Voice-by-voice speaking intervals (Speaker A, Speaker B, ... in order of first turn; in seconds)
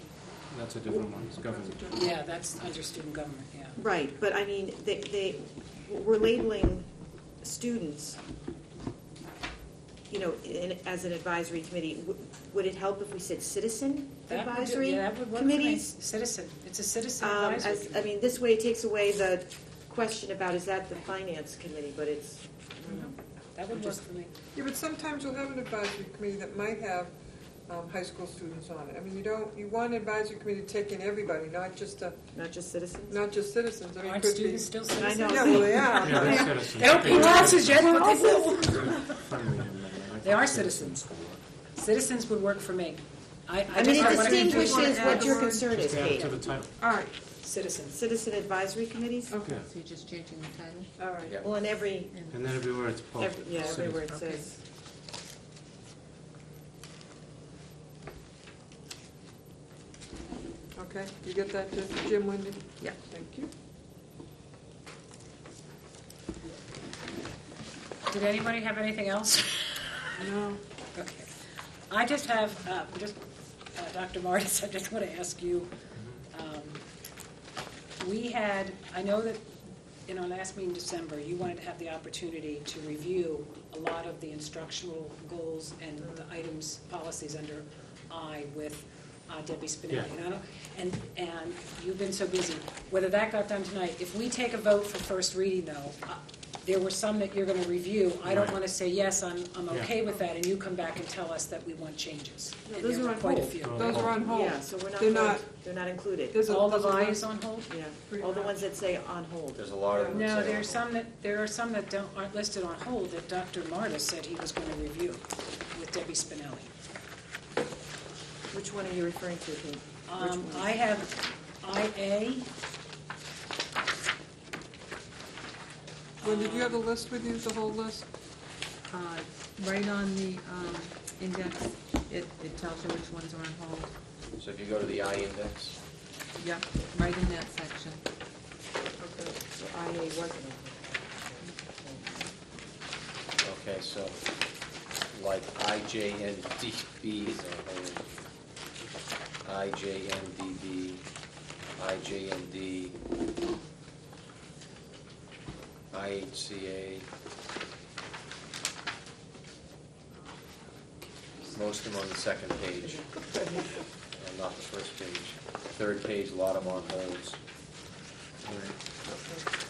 Speaker A: 0.5-2.1, 36.0-38.0, 38.6-41.4, 45.6-46.8, 49.4-49.7, 52.3-54.1, 98.2-98.6, 99.7-100.0, 103.6-104.2, 168.4-168.8
Speaker B: 0.9-2.1, 24.6-27.1, 27.7-32.2, 33.1-37.5, 43.9-45.6, 46.8-47.1, 51.0-51.4, 60.8-63.5, 70.2-70.6, 103.7-105.5, 106.3-107.3, 108.1-108.7, 109.9-110.3, 126.2-128.1, 163.1-163.8, 169.1-169.5
Speaker C: 1.9-3.8, 14.3-18.1, 23.6-24.3, 34.0-39.2, 40.2-41.1, 41.8-45.2, 47.4-48.0, 68.1-70.3, 71.0-71.3, 71.9-73.2, 73.7-75.7, 76.3-76.8, 78.0-79.6, 80.1-104.2, 106.5-107.7, 110.1-116.7, 120.1-122.5, 126.2-126.8
Speaker D: 3.8-6.9, 7.4-8.2, 10.1-16.0, 17.2-23.2, 32.4-33.2, 35.0-36.5, 37.8-39.0, 43.7-46.3, 47.9-49.4, 51.4-52.2, 53.2-54.6, 102.7-106.5, 107.7-109.7, 118.5-120.8, 139.0-142.3
Speaker E: 49.6-50.9, 54.1-54.4, 128.9-133.9, 136.4-138.0
Speaker F: 109.5-110.8, 134.4-135.8, 143.4-144.2, 145.1-148.1, 149.4-151.1, 151.8-153.0, 155.9-157.1, 161.5-163.1, 164.1-167.4